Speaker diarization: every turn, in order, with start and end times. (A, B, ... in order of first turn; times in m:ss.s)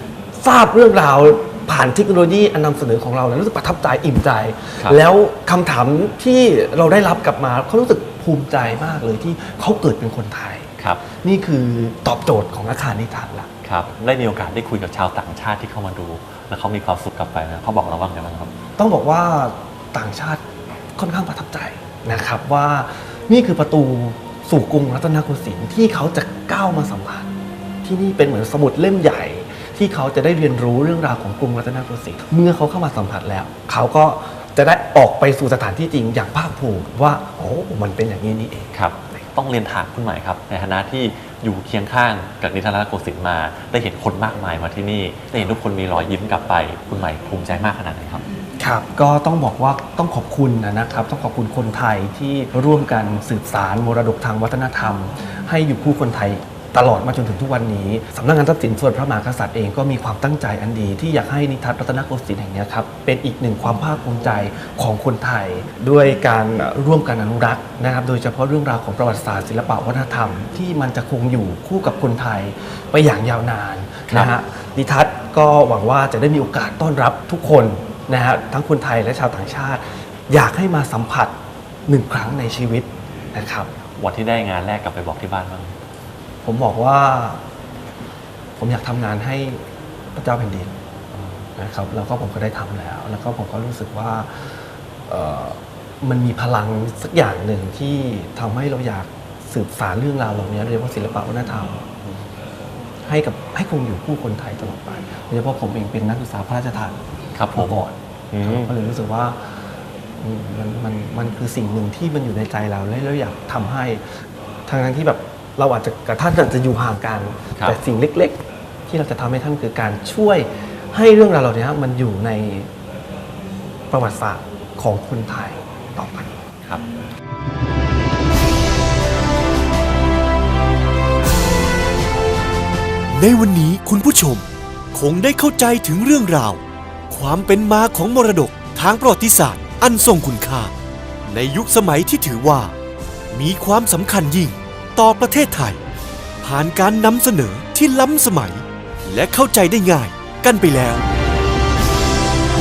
0:00.4-0:10.7 A
0:11.2-0:13.5 A
0:13.6-0:18.5 B
0:18.8-0:20.4 A
0:21.0-0:27.3 A
0:27.8-0:38.7 A
0:38.7-0:48.2 B
0:48.6-1:21.3 A
1:21.9-1:23.7 A
1:24.0-1:25.7 B
1:26.4-1:27.4 A
1:28.6-1:29.6 A
1:30.1-1:30.7 A
1:31.6-1:34.5 A
1:35.1-1:41.9 A
1:43.0-1:47.0 A
1:47.4-1:47.7 B
1:47.5-1:49.6 A
1:48.3-1:48.7 B
1:50.2-1:54.0 A
1:54.7-2:02.7 A
2:03.9-2:06.4 A
2:13.1-2:20.7 C
2:21.3-2:22.7 C
2:23.3-2:25.8 C
2:26.4-2:31.0 C